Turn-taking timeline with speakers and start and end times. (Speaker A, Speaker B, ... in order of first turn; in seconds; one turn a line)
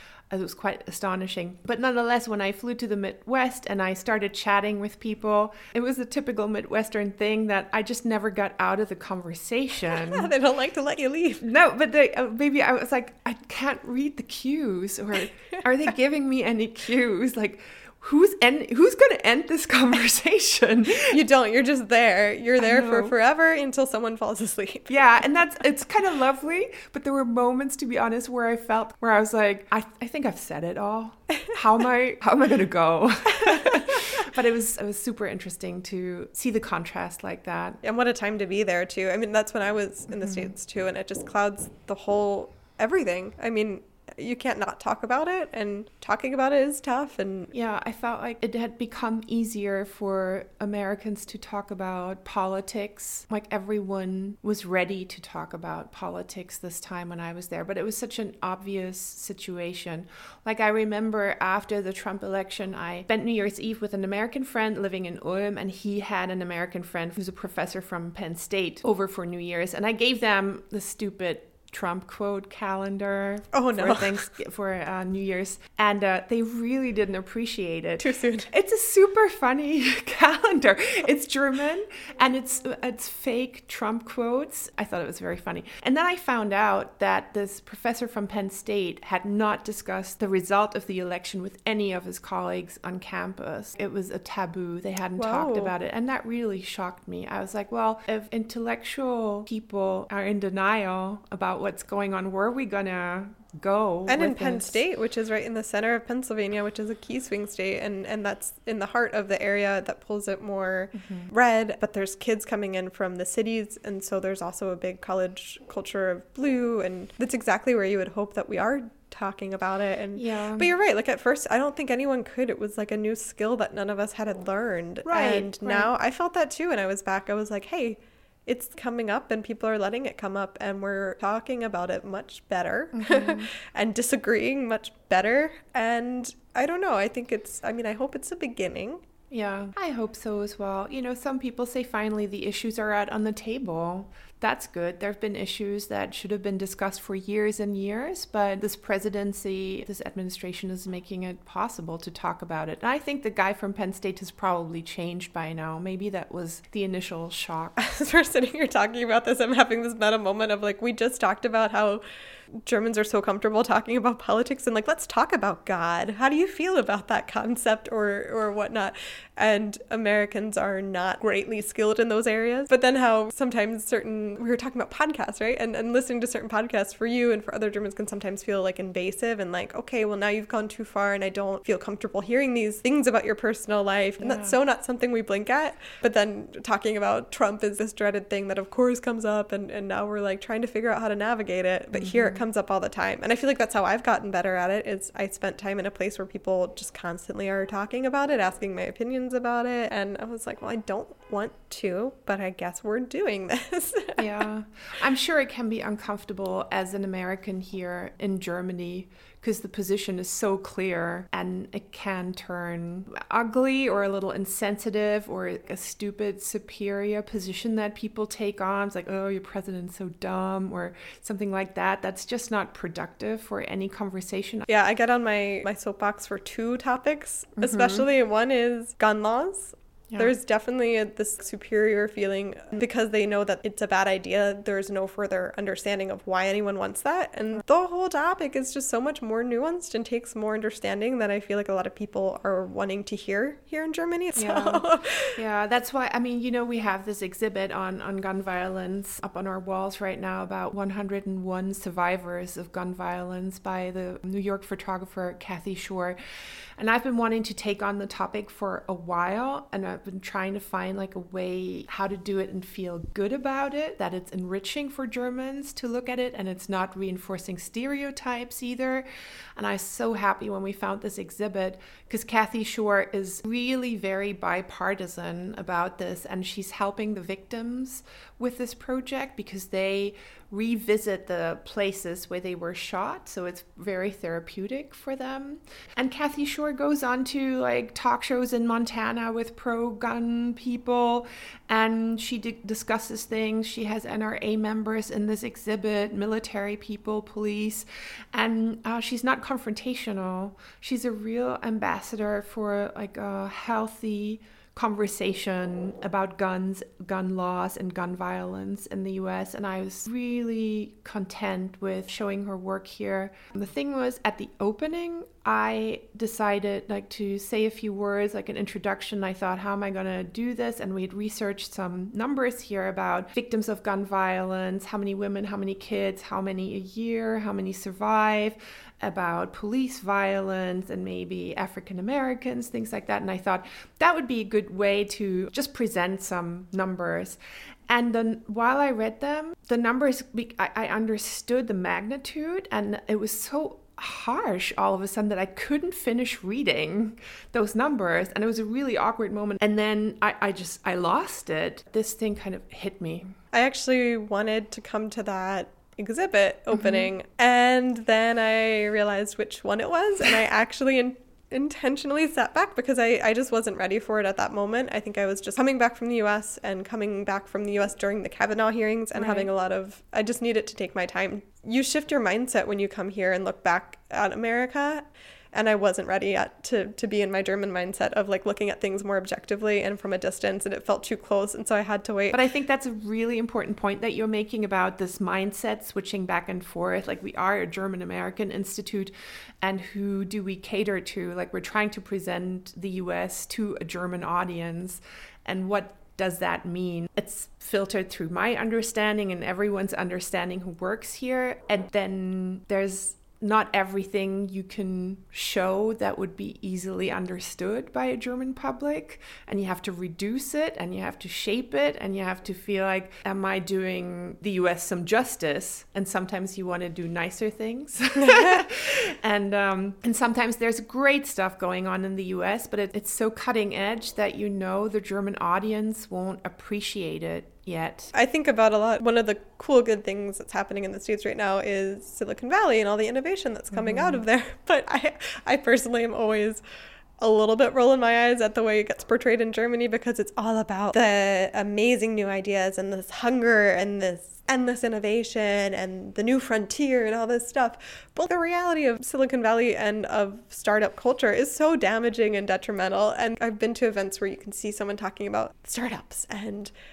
Speaker A: 0.3-10.3
Speaker B: 9.9-11.4
Speaker A: 11.4-21.2
Speaker B: 21.1-24.9
Speaker A: 22.6-23.1
Speaker A: 24.9-37.8
Speaker B: 33.4-34.0
Speaker B: 37.8-47.5
Speaker A: 40.2-40.5
Speaker A: 47.5-104.8
Speaker B: 73.5-74.2
Speaker B: 78.0-78.5
Speaker B: 95.2-95.7
Speaker B: 104.1-139.0
Speaker A: 111.0-111.3
Speaker A: 120.2-120.7
Speaker A: 125.0-125.9
Speaker A: 132.9-133.5
Speaker A: 139.3-157.8
Speaker B: 157.8-162.0
Speaker B: 162.6-204.2
Speaker A: 184.2-184.6
Speaker A: 191.9-192.4
Speaker A: 204.2-224.7
Speaker B: 224.7-245.4
Speaker A: 227.6-228.1
Speaker A: 244.4-256.2
Speaker A: 256.8-269.1
Speaker A: 269.6-337.4
Speaker A: 337.9-353.4
Speaker B: 353.5-382.4
Speaker A: 356.7-357.1
Speaker A: 369.2-369.5
Speaker A: 382.3-428.1
Speaker B: 418.2-418.6
Speaker B: 428.1-436.6
Speaker A: 433.7-434.2
Speaker B: 437.2-456.7